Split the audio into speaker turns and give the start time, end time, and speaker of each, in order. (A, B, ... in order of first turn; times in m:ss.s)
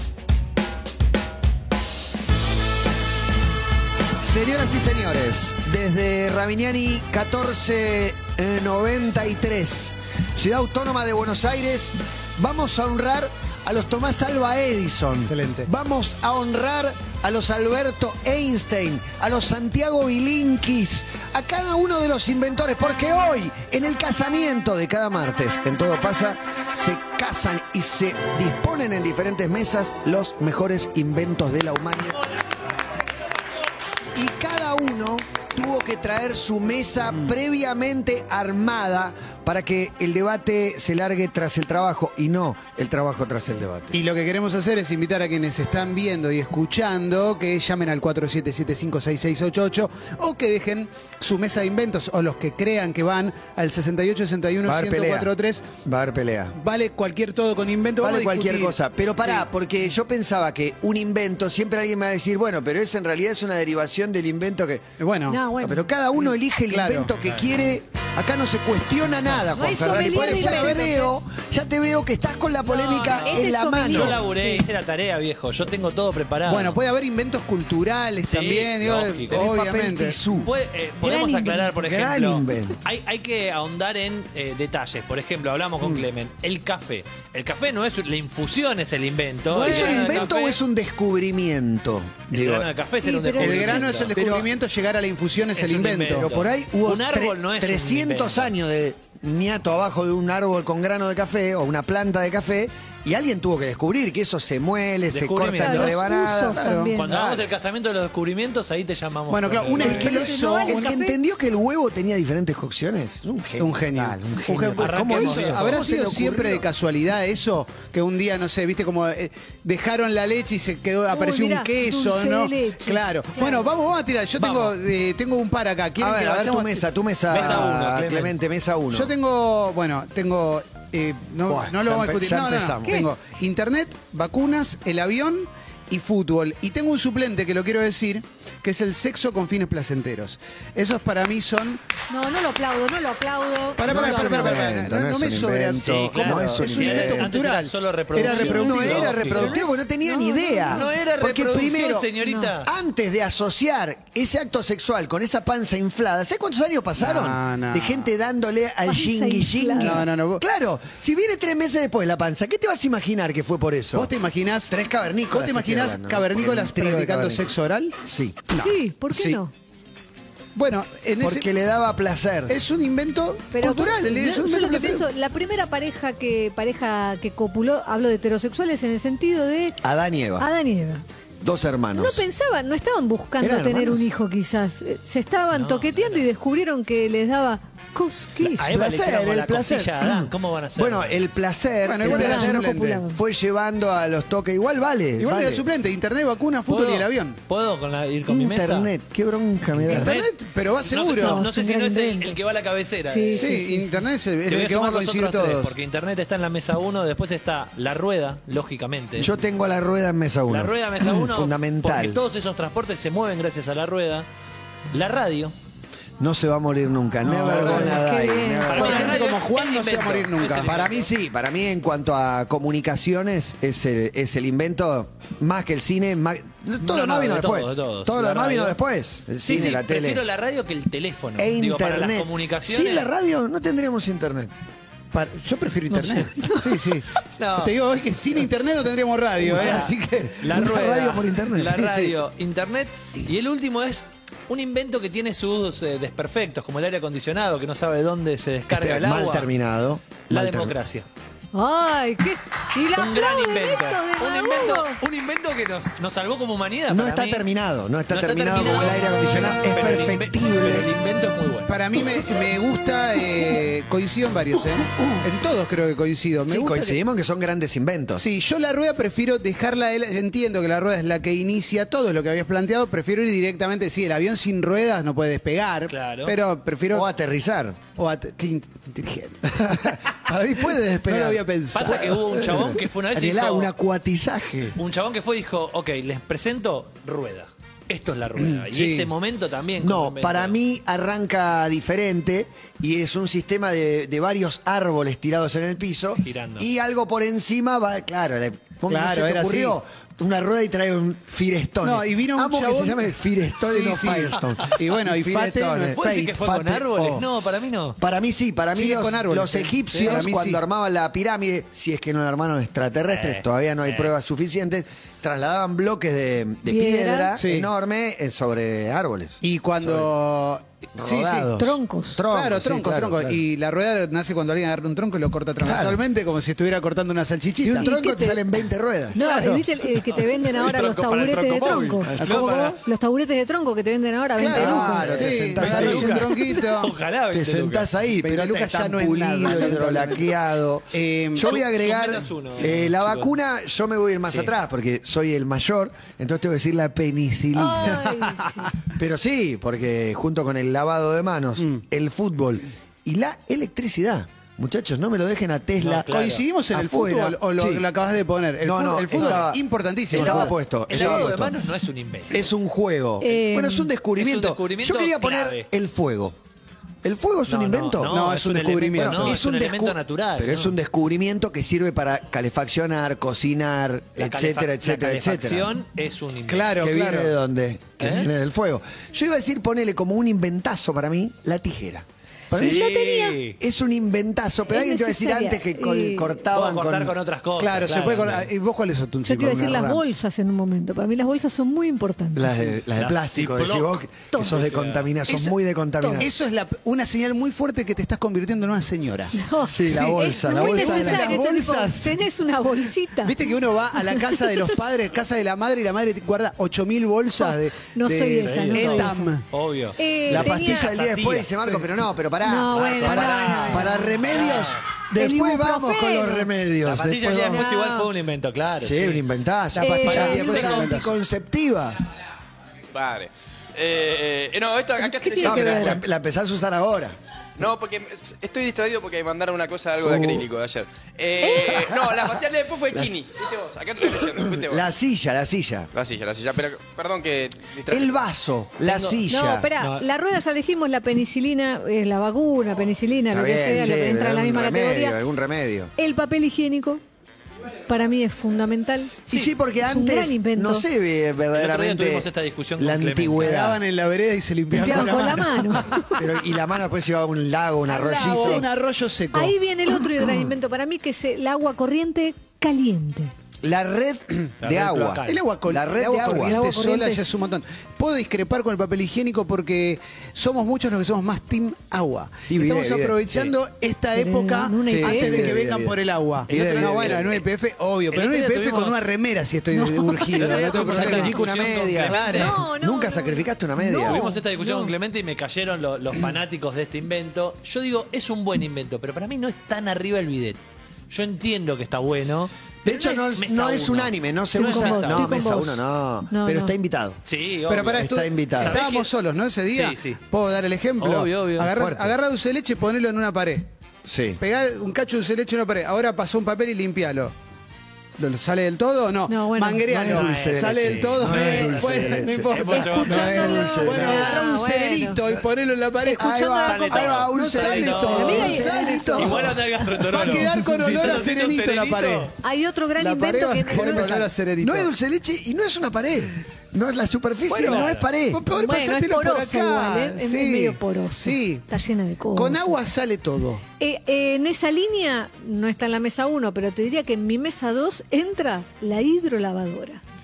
0:04.2-0:32.2 A
0:15.3-0:15.7 B
0:34.2-0:44.0 A
0:43.9-0:55.7 B
0:54.6-0:55.3 A
0:55.8-0:56.6 A
0:56.6-0:59.5 B
0:58.0-1:04.9 A
1:05.0-1:05.4 B
1:05.3-1:05.9 C
1:05.6-1:14.2 A
1:06.7-1:07.1 B
1:07.2-1:07.5 D
1:09.5-1:11.1 C
1:10.1-1:10.8 B
1:12.7-1:14.6 C
1:12.8-1:16.8 D
1:16.5-1:20.2 B
1:18.3-1:19.5 D
1:19.3-1:20.5 A
1:20.3-1:30.6 D
1:21.0-1:21.7 C
1:21.8-1:22.8 A
1:29.5-1:32.7 A
1:29.6-1:30.3 B
1:32.3-1:34.1 D
1:33.0-1:33.9 C
1:33.4-1:36.3 B
1:34.1-1:34.5 A
1:35.6-1:38.5 D
1:36.1-1:47.4 A
1:45.1-1:46.0 D
1:45.6-1:47.1 C
1:46.6-1:46.8 B
1:47.0-1:50.1 D
1:49.3-1:50.9 B
1:49.8-1:56.7 A
1:49.8-1:51.2 C
1:53.6-2:07.8 B
1:54.8-1:55.9 D
2:01.1-2:03.7 C
2:04.4-2:04.8 D
2:06.0-2:09.1 A
2:07.3-2:08.4 D
2:08.9-2:21.8 B
2:11.5-2:13.1 A
2:22.1-2:24.6 C
2:23.8-2:29.1 B
2:23.9-2:27.3 A
2:25.8-2:29.6 D
2:28.3-2:30.9 C
2:28.4-2:32.1 A
2:30.7-2:32.7 D
2:32.2-2:32.5 C
2:32.6-2:44.1 A
2:37.0-2:38.1 B
2:38.8-2:40.0 C
2:39.8-2:40.4 B
2:43.9-2:44.8 B
2:44.7-2:48.5 A
2:45.3-2:47.9 B
2:48.6-2:49.5 C
2:49.1-2:49.4 A
2:50.6-2:51.5 B
2:51.2-2:52.6 A
2:52.5-2:55.1 B
2:53.5-2:59.8 C
2:59.8-3:00.5 A
3:00.4-3:01.0 C
3:01.4-3:02.2 A
3:02.0-3:08.7 C
3:03.4-3:04.0 A
3:05.5-3:06.2 D
3:08.4-3:11.2 D
3:08.7-3:15.6 A
3:11.8-3:13.0 B
3:12.0-3:13.2 C
3:15.2-3:17.4 B
3:16.7-3:18.9 D
3:18.3-3:20.1 A
3:19.7-3:20.3 D
3:19.9-3:21.5 B
3:20.8-3:23.5 D
3:21.2-3:22.3 C
3:23.1-3:24.0 C
3:23.3-3:25.7 B
3:24.5-3:29.3 D
3:29.2-3:32.2 A
3:30.5-3:34.3 D
3:34.9-3:35.5 D
3:36.2-3:39.2 A
3:37.2-3:38.0 B
3:37.5-3:39.1 C
3:37.6-3:38.0 D
3:38.7-3:41.1 D
3:38.8-3:40.9 B
3:40.7-3:50.2 A
3:46.8-3:48.8 D
3:49.4-3:53.1 D
3:51.4-3:54.5 A
3:55.1-3:57.1 B
3:55.9-3:56.8 D
3:57.4-3:57.8 D
3:57.6-4:00.4 B
3:59.4-4:09.5 D
3:59.5-4:02.1 A
4:08.7-4:10.8 A
4:10.3-4:11.1 D
4:11.5-4:15.0 C
4:13.0-4:17.4 D
4:16.9-4:20.9 A
4:18.1-4:21.8 D
4:21.7-4:27.0 B
4:26.5-4:28.2 A
4:28.2-4:37.1 B
4:35.9-4:36.4 D
4:36.9-4:37.8 A
4:38.0-4:40.0 B
4:39.6-4:41.4 A
4:41.0-4:42.8 B
4:41.7-4:43.7 D
4:42.4-4:44.8 A
4:44.8-4:50.6 D
4:48.4-4:49.1 B
4:49.8-5:07.3 A
4:56.2-4:56.7 D
4:58.9-4:59.8 B
5:01.8-5:06.3 B
5:06.0-5:08.0 D
5:08.0-5:20.1 A
5:08.7-5:10.6 B
5:09.9-5:10.2 D
5:13.1-5:14.1 D
5:16.7-5:17.3 C
5:17.4-5:17.7 B
5:19.4-5:21.6 B
5:21.0-5:23.4 A
5:21.6-5:22.2 C
5:22.3-5:27.9 B
5:25.6-5:26.0 A
5:27.6-5:29.6 A
5:27.8-5:28.4 C
5:29.1-5:32.1 C
5:29.2-5:32.8 D
5:32.2-5:32.8 B
5:32.8-5:35.4 C
5:34.4-5:36.3 A
5:34.4-5:36.9 B
5:35.6-5:37.9 D
5:37.3-5:48.0 A
5:38.2-5:40.3 B
5:40.9-5:41.5 B
5:41.4-5:43.3 D
5:47.6-5:48.7 C
5:47.6-5:48.7 B
5:49.0-5:56.1 A
5:55.8-5:56.4 D
5:56.1-6:01.3 B
5:56.7-5:57.8 A
5:58.6-6:01.6 A
5:59.1-5:59.5 D
6:00.1-6:02.5 D
6:02.3-6:06.4 A
6:03.2-6:03.9 C
6:04.2-6:05.7 D
6:07.0-6:08.3 A
6:07.5-6:10.7 D
6:08.1-6:09.4 B
6:09.0-6:15.8 A
6:14.2-6:16.8 D
6:16.5-6:17.3 B
6:16.8-6:22.8 A
6:18.0-6:18.3 D
6:22.5-6:23.4 C
6:22.5-6:23.6 D
6:23.6-6:27.2 A
6:24.7-6:26.4 C
6:26.5-6:28.5 D
6:27.6-6:30.0 B
6:29.3-6:32.7 C
6:29.5-6:30.0 A
6:32.4-6:36.3 A
6:33.0-6:35.1 D
6:34.3-6:34.6 C
6:35.3-6:36.3 C
6:36.2-6:39.4 B
6:39.4-6:43.4 C
6:39.6-6:41.4 A
6:39.9-6:42.2 B
6:43.2-6:49.5 B
6:44.1-6:44.7 C
6:47.3-6:49.4 C
6:48.4-6:51.6 D
6:50.0-6:51.0 C
6:50.3-6:57.7 A
6:52.4-6:54.2 C
6:52.7-6:54.8 D
6:55.2-6:56.5 C
6:56.8-6:59.2 D
6:57.5-6:58.1 C
6:58.8-7:02.0 A
6:59.8-7:01.1 B
6:59.8-7:00.9 C
7:02.9-7:06.0 E
7:05.0-7:06.0 C
7:05.4-7:07.2 A
7:07.6-7:14.9 E
7:10.0-7:10.4 A
7:11.6-7:12.2 A
7:14.6-7:15.9 A
7:15.9-7:18.3 E
7:17.9-7:19.7 A
7:18.8-7:19.2 D
7:19.3-7:25.2 C
7:19.8-7:20.0 D
7:23.3-7:25.9 A
7:26.0-7:27.0 C
7:27.9-7:29.2 C
7:29.3-7:33.8 A
7:29.8-7:30.9 C
7:31.5-7:33.6 D
7:33.4-7:36.2 B
7:34.8-7:36.2 C
7:34.8-7:35.1 D
7:36.2-7:38.7 A
7:37.9-7:39.6 B
7:38.1-7:38.6 C
7:39.3-7:43.3 C
7:40.2-7:40.5 A
7:43.6-7:46.6 A
7:44.6-7:45.4 D
7:45.3-8:02.6 B
7:46.4-7:47.5 C
7:52.5-7:53.2 A
7:54.2-7:55.5 C
7:54.8-7:57.3 A
7:56.5-7:57.4 D
7:58.1-7:59.1 D
7:59.7-8:00.6 C
8:00.3-8:02.5 D
8:00.4-8:04.2 A
8:02.3-8:04.9 C
8:04.0-8:10.6 D
8:11.1-8:15.3 D
8:12.8-8:17.2 A
8:14.5-8:16.8 C
8:17.2-8:19.1 D
8:17.7-8:23.7 B
8:17.9-8:18.8 A
8:19.7-8:20.2 D
8:21.0-8:21.7 D
8:21.7-8:22.2 A
8:24.0-8:24.4 A
8:24.4-8:27.3 B
8:28.2-8:36.4 B
8:29.3-8:30.0 C
8:29.9-8:34.4 A
8:30.1-8:34.4 D
8:32.7-8:35.2 C
8:36.0-8:37.4 C
8:36.2-8:39.6 A
8:36.7-8:42.3 D
8:37.3-8:42.3 B
8:38.1-8:39.4 C
8:40.3-8:41.0 C
8:42.4-8:44.1 C
8:43.0-8:44.9 B
8:43.7-8:48.4 A
8:47.5-8:51.6 B
8:47.5-8:48.1 D
8:48.5-8:52.8 C
8:52.4-8:53.6 B
8:53.8-9:00.0 C